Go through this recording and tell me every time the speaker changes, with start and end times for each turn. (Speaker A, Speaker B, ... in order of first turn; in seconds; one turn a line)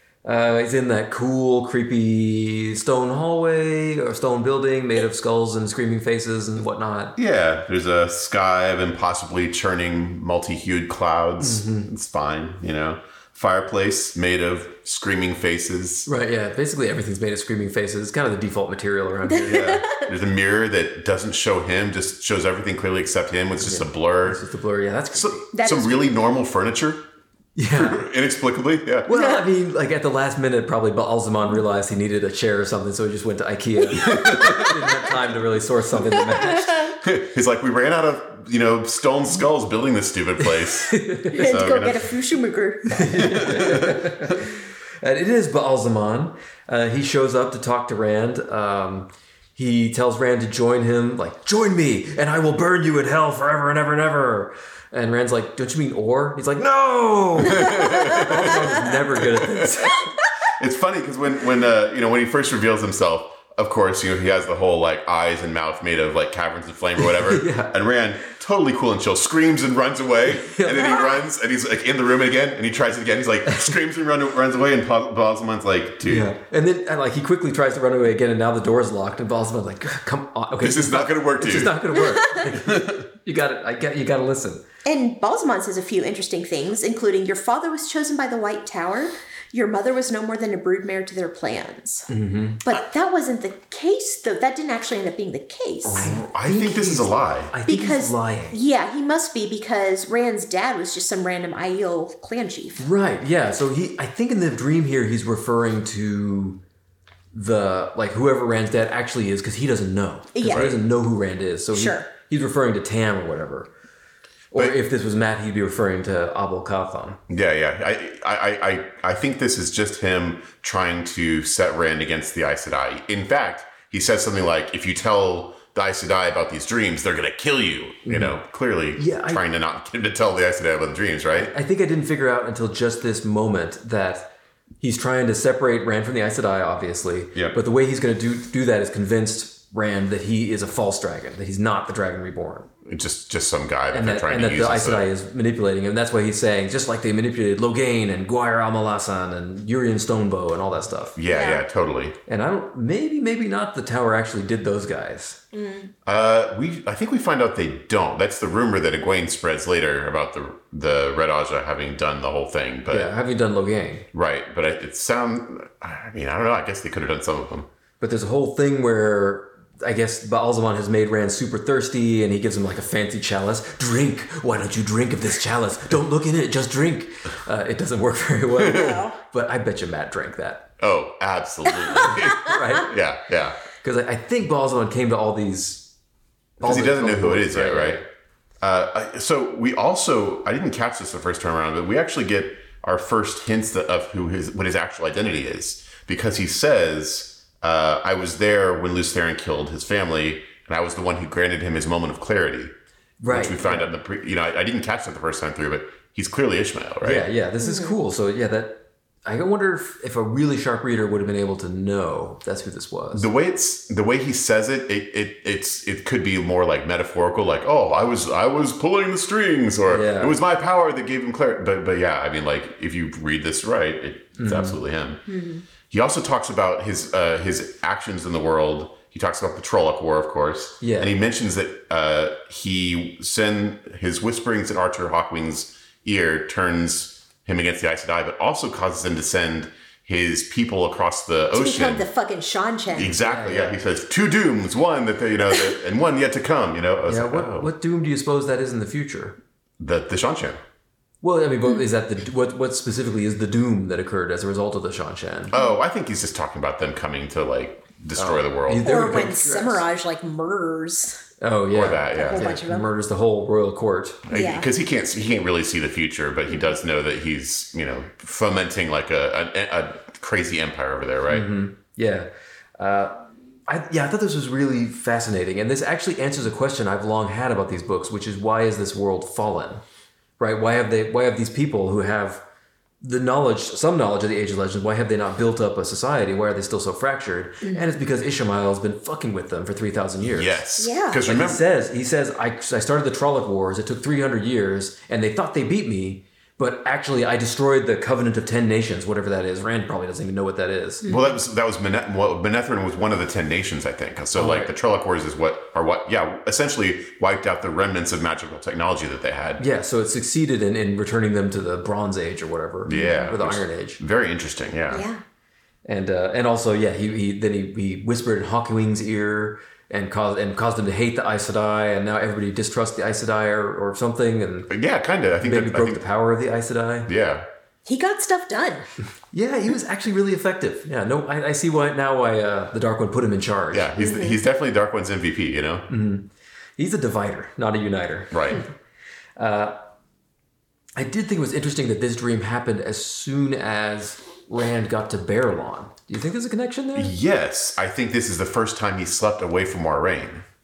Speaker A: 0.2-7.2
Speaker B: 7.2-16.1
Speaker A: 11.4-11.9
Speaker A: 16.1-19.9
Speaker C: 19.3-20.0
Speaker B: 19.4-24.4
Speaker A: 23.6-25.5
Speaker B: 25.1-27.0
Speaker C: 25.5-26.1
Speaker A: 27.6-28.0
Speaker B: 27.8-29.1
Speaker A: 29.1-36.9
Speaker C: 29.1-29.4
Speaker B: 34.0-34.8
Speaker C: 34.0-34.8
Speaker C: 36.1-36.9
Speaker B: 37.0-42.1
Speaker A: 40.8-41.5
Speaker C: 41.3-43.2
Speaker A: 42.9-60.1
Speaker B: 43.1-44.4
Speaker B: 57.4-59.9
Speaker B: 60.5-76.3
Speaker A: 67.0-67.7
Speaker A: 70.5-71.0
Speaker C: 70.8-71.1
Speaker A: 76.0-84.6
Speaker B: 80.6-81.8
Speaker C: 82.0-82.5
Speaker B: 82.5-83.0
Speaker C: 84.8-92.1
Speaker A: 92.1-92.6
Speaker C: 92.6-96.1
Speaker B: 95.8-97.5
Speaker A: 95.9-98.6
Speaker C: 97.7-102.8
Speaker A: 102.8-106.6
Speaker A: 107.3-113.7
Speaker C: 110.3-110.7
Speaker B: 110.4-110.7
Speaker C: 111.7-112.1
Speaker A: 114.5-117.2
Speaker B: 117.3-131.5
Speaker A: 128.0-128.4
Speaker A: 128.9-129.4
Speaker A: 131.3-142.7
Speaker B: 142.8-145.1
Speaker A: 143.9-151.2
Speaker B: 151.1-152.2
Speaker C: 151.3-151.6
Speaker A: 152.2-155.4
Speaker C: 155.5-155.9
Speaker B: 156.0-163.1
Speaker A: 162.9-164.1
Speaker B: 164.1-167.7
Speaker A: 168.0-180.7
Speaker C: 178.6-179.2
Speaker B: 178.7-179.0
Speaker B: 180.8-183.6
Speaker C: 181.8-182.2
Speaker A: 182.0-182.9
Speaker A: 183.8-185.9
Speaker A: 186.6-188.1
Speaker B: 186.6-188.0
Speaker B: 188.6-202.7
Speaker A: 203.2-203.9
Speaker B: 203.3-207.3
Speaker A: 207.0-213.3
Speaker C: 207.6-207.9
Speaker B: 213.1-225.2
Speaker A: 219.9-220.3
Speaker A: 224.4-224.8
Speaker C: 225.3-225.6
Speaker B: 225.9-242.1
Speaker A: 230.8-231.1
Speaker C: 241.5-243.2
Speaker B: 242.9-247.7
Speaker A: 243.2-243.8
Speaker A: 247.1-249.4
Speaker B: 249.8-250.6
Speaker A: 251.2-255.5
Speaker B: 255.5-258.9
Speaker C: 255.5-255.8
Speaker A: 258.2-259.8
Speaker C: 258.8-261.2
Speaker A: 261.4-264.2
Speaker B: 261.7-262.6
Speaker C: 262.1-262.9
Speaker B: 264.3-271.5
Speaker C: 264.3-264.7
Speaker A: 271.3-279.8
Speaker A: 280.4-282.4
Speaker A: 283.0-290.6
Speaker B: 290.2-291.6
Speaker C: 290.8-291.2
Speaker A: 291.2-301.1
Speaker C: 301.0-301.3
Speaker B: 301.1-309.6
Speaker A: 304.3-304.7
Speaker A: 309.6-314.0
Speaker B: 312.9-315.1
Speaker C: 312.9-313.2
Speaker C: 314.9-315.2
Speaker A: 315.9-324.7
Speaker B: 324.7-326.0
Speaker A: 325.4-327.1
Speaker B: 327.1-327.5
Speaker C: 327.9-328.9
Speaker A: 329.3-333.9
Speaker B: 333.7-335.9
Speaker C: 334.0-334.4
Speaker A: 335.9-338.7
Speaker B: 338.3-338.6
Speaker A: 339.4-339.8
Speaker A: 340.9-347.1
Speaker B: 346.9-350.4